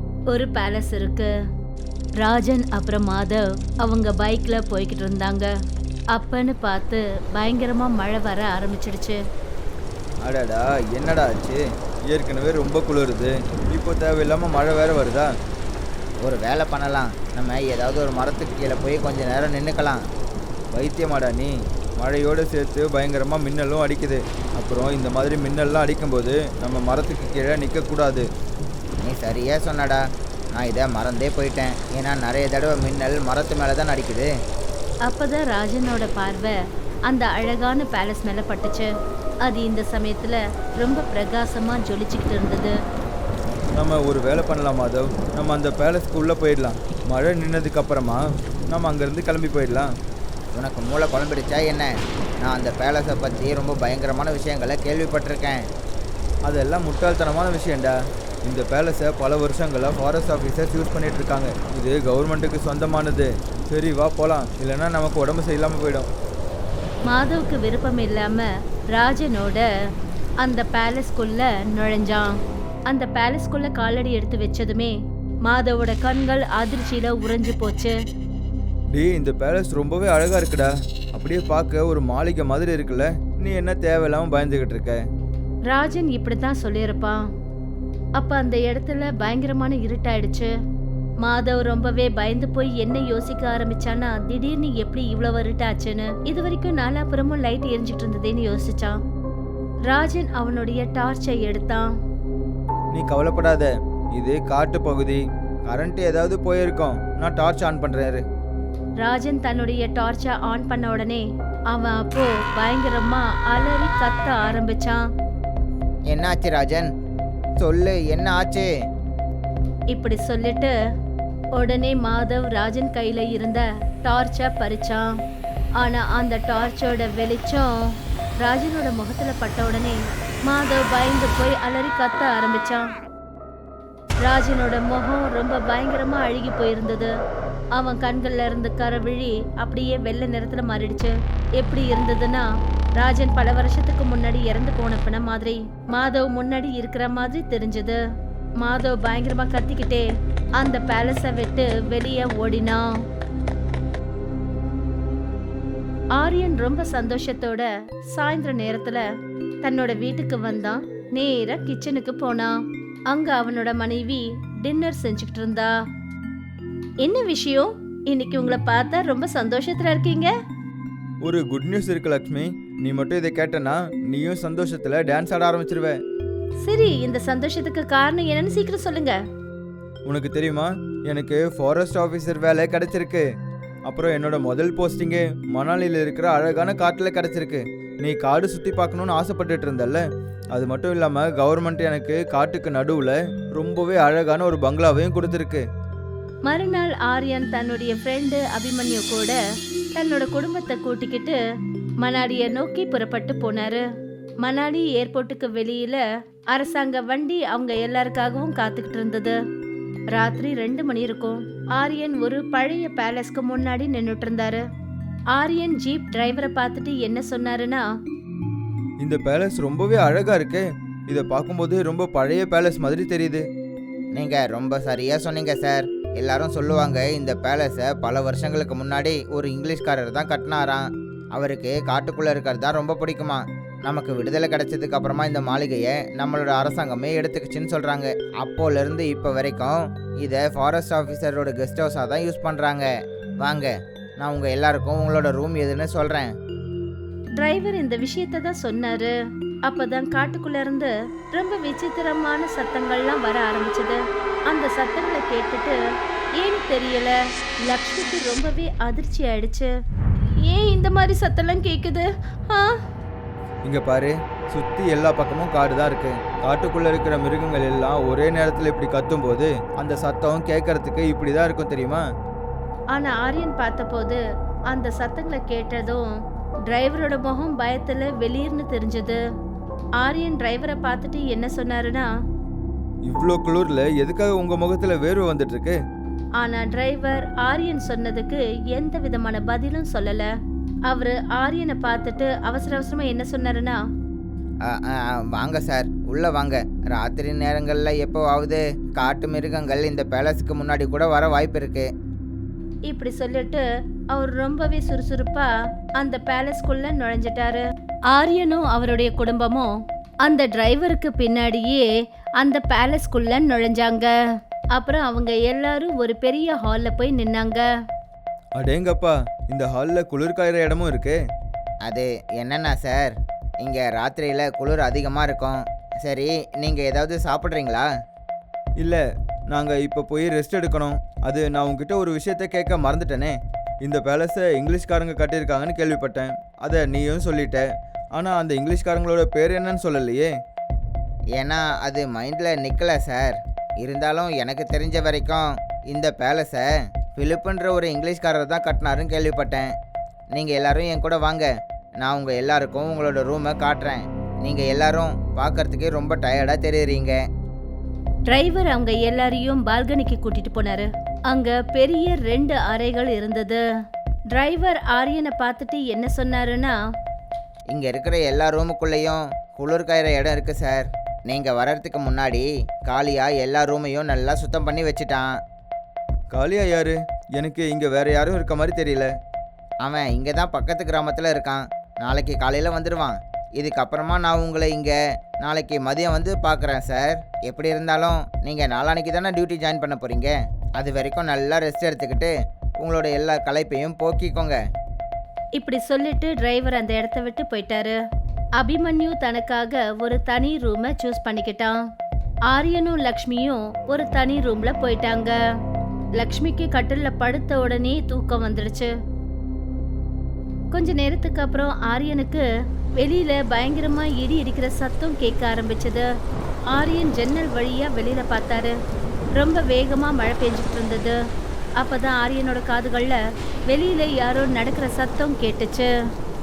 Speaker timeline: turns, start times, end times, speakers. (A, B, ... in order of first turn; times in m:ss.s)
0:00.3-0:01.3 A
0:02.2-0:05.5 A
0:06.1-0:09.2 A
0:10.2-0:15.3 B
0:16.2-0:20.0 C
0:20.7-0:28.3 B
0:29.0-0:30.0 C
0:30.6-0:34.3 C
0:35.1-0:36.5 A
0:37.1-0:38.9 A
0:39.4-0:42.7 A
0:43.7-0:49.9 B
0:50.6-0:55.6 C
0:56.5-1:06.1 B
1:07.1-1:09.6 A
1:10.4-1:12.3 A
1:12.9-1:15.0 A
1:15.5-1:18.0 A
1:18.9-1:25.0 B
1:25.7-1:27.2 A
1:28.2-1:30.5 A
1:31.2-1:39.0 A
1:39.9-1:41.9 A
1:42.9-1:48.2 B
1:49.0-1:55.0 A
1:56.1-1:56.9 C
1:57.6-1:58.7 C
1:59.9-2:00.7 A
2:01.6-2:05.1 A
2:05.8-2:07.8 A
2:08.4-2:12.9 A
2:14.2-2:17.1 A
2:17.8-2:28.0 A
2:28.6-2:30.1 A
2:30.6-2:32.9 A
2:36.2-2:39.0 A
2:39.6-2:42.5 A
2:43.1-2:45.7 A
2:47.0-2:50.3 A
2:51.2-2:56.0 B
2:56.6-2:59.2 A
3:00.1-3:03.3 B
3:03.9-3:10.0 B
3:10.5-3:15.6 B
3:16.5-3:19.4 A
3:20.0-3:21.4 A
3:22.0-3:23.8 A
3:24.4-3:26.0 A
3:26.5-3:29.4 A
3:30.1-3:34.6 A
3:35.3-3:37.8 A
3:39.0-3:43.5 B
3:44.2-4:02.9 C
4:03.4-4:06.3 C
4:07.4-4:09.1 A
4:09.7-4:15.8 A
4:16.4-4:17.1 A
4:17.6-4:19.7 A
4:20.4-4:22.7 A
4:23.6-4:32.0 B
4:32.9-4:34.2 A
4:34.7-4:36.1 A
4:36.7-4:39.2 A
4:40.0-4:42.1 A
4:43.1-4:45.8 B
4:46.4-4:50.3 A
4:50.9-4:53.8 A
4:54.7-5:01.9 C
5:02.9-5:09.7 A
5:10.2-5:11.9 A
5:12.4-5:14.1 A
5:14.8-5:17.6 A
5:18.6-5:21.2 B
5:21.8-5:27.9 C
5:28.8-5:40.3 B
5:41.4-5:49.7 C
5:50.4-5:51.5 C
5:52.0-5:57.2 C
5:58.3-6:03.6 A
6:04.3-6:06.8 A
6:07.7-6:15.3 C
6:16.3-6:19.1 B
6:19.8-6:34.6 C
6:35.6-6:38.0 A
6:38.6-6:41.8 A
6:42.5-6:45.4 A
6:46.2-6:48.9 A
6:50.7-6:52.4 A
6:53.0-6:56.1 A
6:56.7-6:58.8 A
6:59.4-7:01.2 A
7:01.8-7:05.9 A